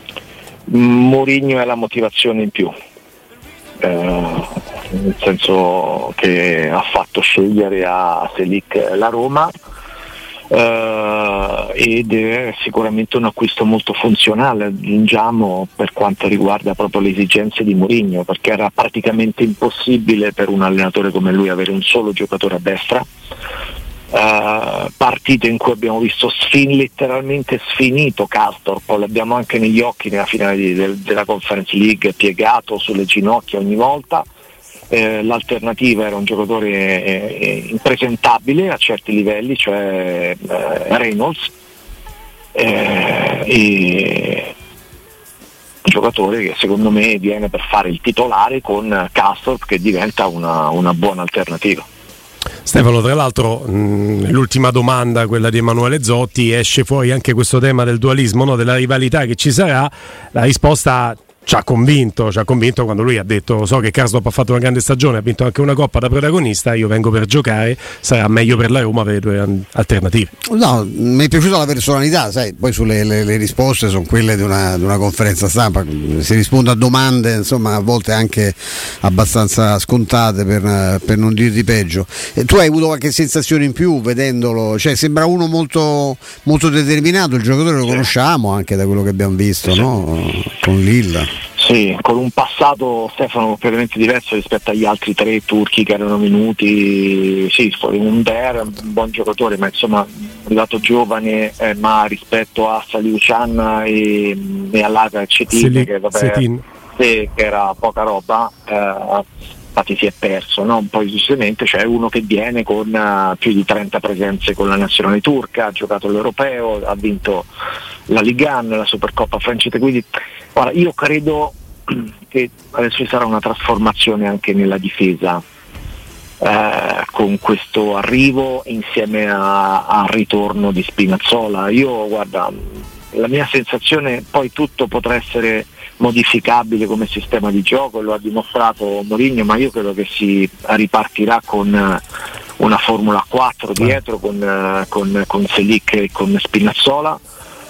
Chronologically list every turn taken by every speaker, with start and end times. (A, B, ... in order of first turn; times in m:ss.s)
0:00.7-0:02.7 A
0:03.8-0:09.5 A
0:10.5-0:23.0 A
0:24.1-0:34.3 A
0:34.9-0:41.5 A
0:42.5-0:44.5 A
0:45.9-0:51.9 A
0:52.7-1:10.3 B
1:10.5-1:31.3 C
1:31.6-1:46.4 A
1:45.5-1:46.6 B
1:47.0-1:57.5 A
1:58.1-2:05.4 A
2:06.4-2:22.0 A
2:22.6-2:27.2 A